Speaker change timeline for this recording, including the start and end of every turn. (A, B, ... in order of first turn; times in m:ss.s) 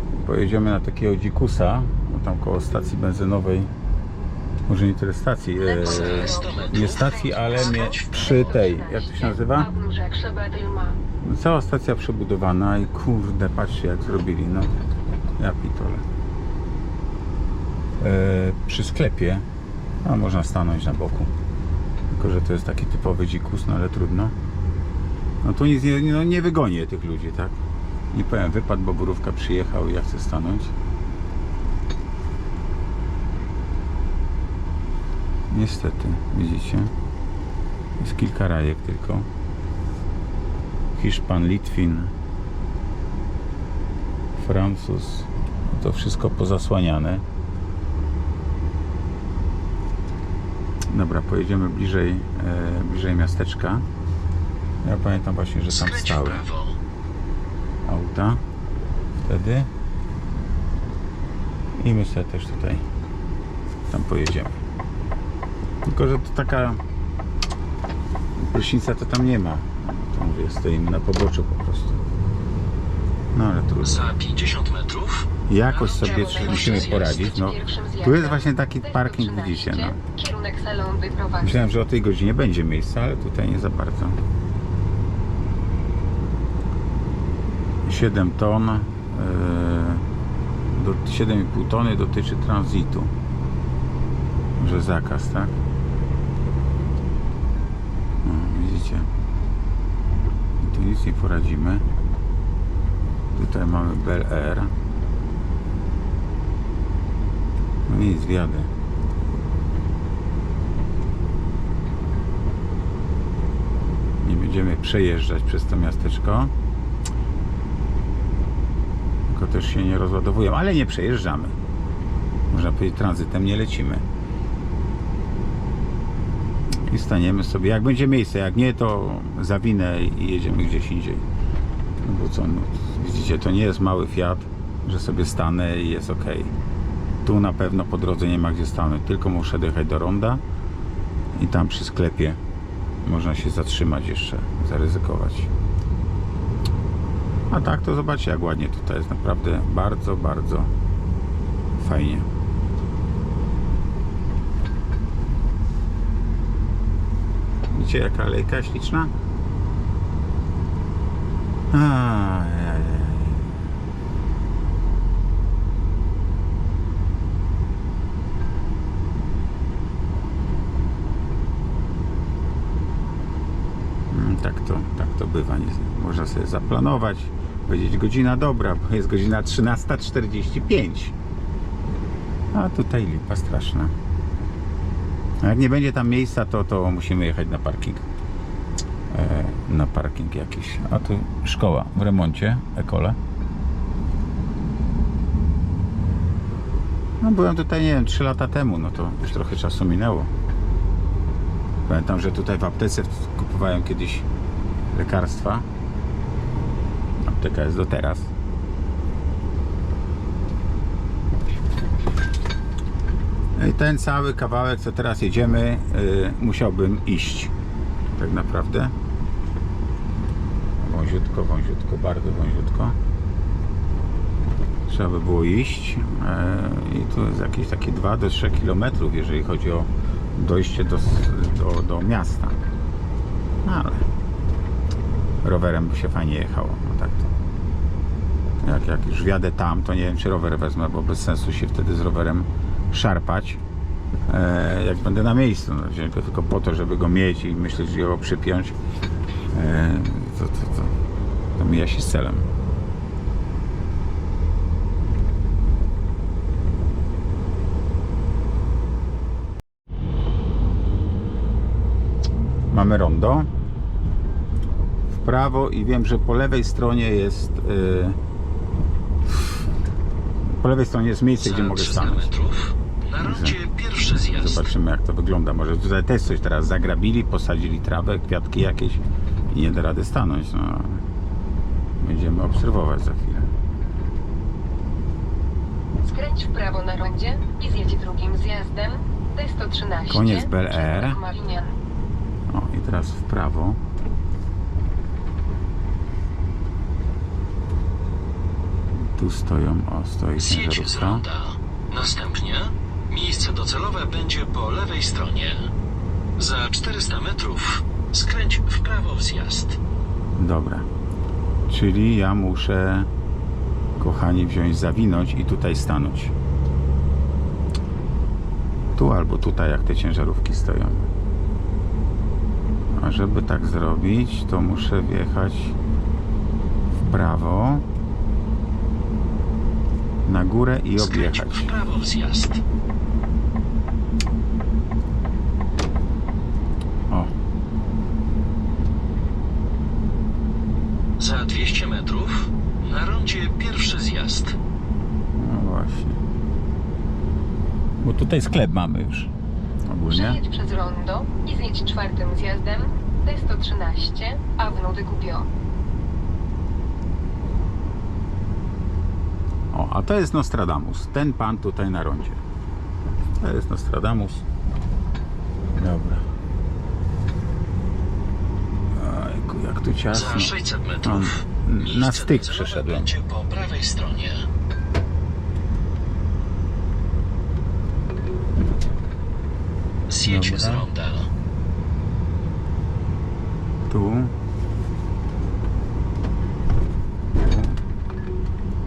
0:00.2-0:03.7 A
0:04.7-0:09.7 A
0:05.6-0:11.0 B
0:05.8-0:08.4 C
0:11.2-0:14.7 A
0:15.4-0:16.0 A
0:18.0-0:19.4 A
0:20.0-0:21.3 A
0:22.1-0:24.3 A
0:25.4-0:27.6 A
0:28.1-0:30.7 A
0:35.5-0:36.9 A
0:38.0-0:39.3 A
0:41.0-0:42.1 A
0:44.4-0:47.2 A
0:50.9-0:53.8 A
0:54.8-0:56.4 A
0:55.7-0:56.8 C
0:57.8-0:58.4 A
0:59.3-0:59.7 A
1:01.8-1:02.8 A
1:03.9-1:04.6 A
1:05.8-1:06.8 A
1:08.4-1:12.0 A
1:13.3-1:14.1 A
1:13.8-1:17.4 C
1:15.5-1:20.0 A
1:16.0-1:21.7 B
1:21.4-1:24.2 A
1:27.8-1:30.0 A
1:30.7-1:33.1 A
1:34.6-1:35.6 A
1:38.2-1:39.1 A
1:40.6-1:41.8 A
1:43.4-1:44.7 A
1:47.9-1:48.7 A
1:54.2-1:56.5 A
1:59.3-2:01.6 A
2:02.5-2:04.0 A
2:06.9-2:11.2 A
2:12.0-2:16.5 A
2:17.2-2:20.4 A
2:21.4-2:22.4 A
2:23.0-2:25.5 A
2:27.5-2:30.7 A
2:31.8-2:32.3 A
2:37.7-2:39.1 A
2:41.7-2:43.5 A
2:54.1-3:01.2 A
3:02.5-3:03.9 A
3:05.4-3:08.1 A
3:09.1-3:13.2 A
3:17.2-3:20.3 A
3:21.9-3:24.3 A
3:24.9-3:25.6 A
3:27.2-3:28.3 A
3:33.6-3:37.5 A
3:38.2-3:38.9 A
3:40.8-3:43.0 A
3:44.9-3:52.6 A
3:53.6-3:54.0 A
3:55.4-3:57.3 A
3:58.6-4:03.6 A
4:04.3-4:08.8 A
4:09.5-4:11.0 A
4:11.6-4:12.5 A
4:22.7-4:23.5 A
4:25.1-4:28.2 A
4:30.6-4:32.3 A
4:31.4-4:34.7 C
4:33.2-4:33.6 A
4:34.1-4:41.0 A
4:42.0-4:43.5 A
4:46.0-4:51.8 B
4:50.1-4:51.2 A
4:52.5-4:53.8 A
4:59.2-5:01.2 A
5:00.4-5:05.7 C
5:06.4-5:09.8 C
5:10.4-5:10.9 A
5:11.7-5:13.1 A
5:14.0-5:16.3 A
5:19.0-5:21.1 A
5:23.0-5:25.8 A
5:27.0-5:27.8 A
5:30.3-5:31.7 A
5:31.0-5:32.6 C
5:41.2-5:44.6 C
5:45.4-5:46.2 A
5:48.0-5:49.3 A
5:49.9-5:50.4 A
5:50.1-5:55.5 B
5:59.7-6:02.4 A
6:03.4-6:04.4 A
6:05.8-6:06.2 A
6:08.9-6:13.1 A
6:10.1-6:14.5 C
6:20.1-6:21.3 C
6:20.2-6:20.9 A
6:23.9-6:24.3 A
6:27.4-6:27.8 A